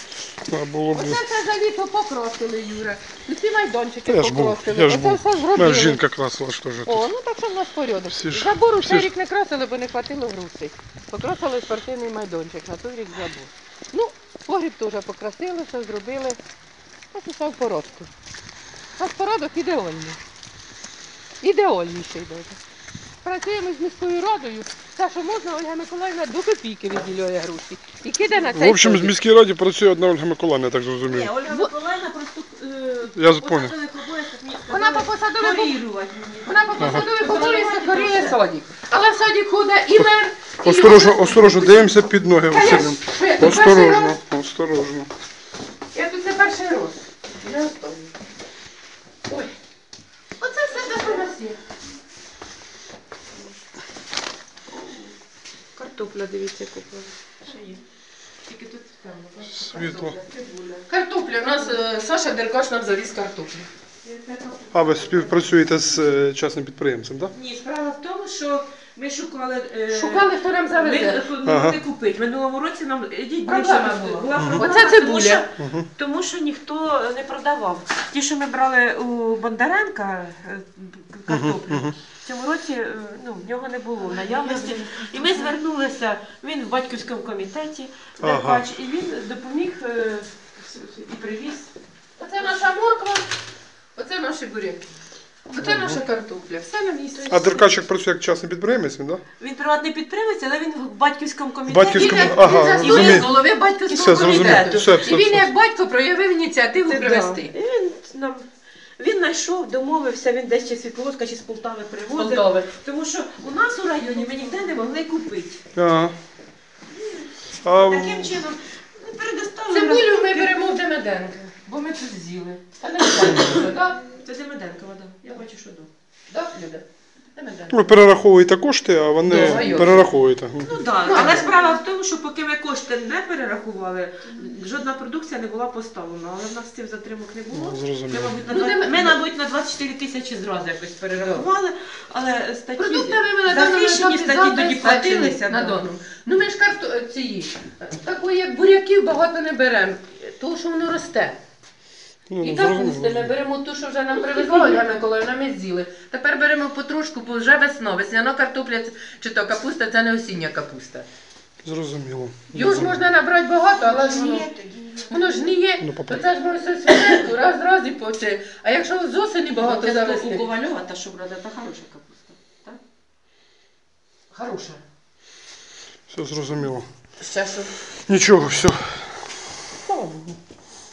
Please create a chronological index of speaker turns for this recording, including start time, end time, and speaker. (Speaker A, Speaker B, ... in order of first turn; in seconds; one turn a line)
Speaker A: 0.5-1.2
Speaker B: 0.9-6.0
Speaker A: 4.1-7.1
Speaker B: 6.9-16.4
Speaker A: 8.1-9.1
Speaker B: 17.1-18.1
Speaker B: 19.0-20.2
Speaker B: 21.4-22.6
Speaker B: 23.2-29.1
Speaker A: 28.5-31.3
Speaker C: 31.0-38.4
Speaker A: 33.1-33.8
Speaker B: 34.7-35.8
Speaker B: 36.5-44.1
Speaker A: 36.8-37.0
Speaker A: 40.6-45.1
Speaker B: 45.9-48.1
Speaker B: 49.3-49.5
Speaker B: 50.4-51.6
Speaker C: 50.8-51.2
Speaker C: 55.8-57.8
Speaker C: 58.5-60.9
Speaker A: 59.5-60.1
Speaker B: 60.9-63.7
Speaker C: 64.0-65.6
Speaker A: 64.7-67.3
Speaker C: 67.3-91.7
Speaker B: 69.9-71.2
Speaker A: 71.4-71.8
Speaker B: 73.5-75.4
Speaker A: 74.3-74.7
Speaker A: 75.6-75.9
Speaker A: 81.3-82.0
Speaker B: 84.0-85.5
Speaker A: 88.2-88.7
Speaker B: 92.2-93.3
Speaker B: 94.0-94.9
Speaker B: 95.5-97.3
Speaker A: 95.6-96.0
Speaker C: 97.1-97.8
Speaker A: 97.3-99.2
Speaker C: 99.4-105.2
Speaker A: 101.7-103.3
Speaker B: 101.9-107.5
Speaker A: 103.9-105.5
Speaker C: 106.9-108.5
Speaker C: 109.0-115.6
Speaker B: 112.1-112.7
Speaker A: 115.8-116.1
Speaker C: 117.1-120.5
Speaker A: 117.6-118.4
Speaker B: 119.7-124.0
Speaker C: 124.1-125.9
Speaker B: 126.3-128.0
Speaker A: 127.7-131.3
Speaker B: 129.2-130.1
Speaker C: 129.3-130.0
Speaker C: 130.6-145.9
Speaker B: 131.0-131.5
Speaker A: 137.5-138.4
Speaker B: 138.5-139.2
Speaker B: 141.1-141.5
Speaker B: 142.8-151.4
Speaker A: 152.3-153.3
Speaker B: 152.4-161.1
Speaker C: 154.1-155.0
Speaker A: 161.6-163.0
Speaker B: 162.5-164.5
Speaker C: 163.7-165.4
Speaker B: 165.1-170.5
Speaker A: 165.8-166.3
Speaker C: 169.6-172.8
Speaker B: 174.3-174.8
Speaker A: 176.1-176.9
Speaker B: 177.2-177.7
Speaker A: 178.1-179.3
Speaker B: 179.9-180.3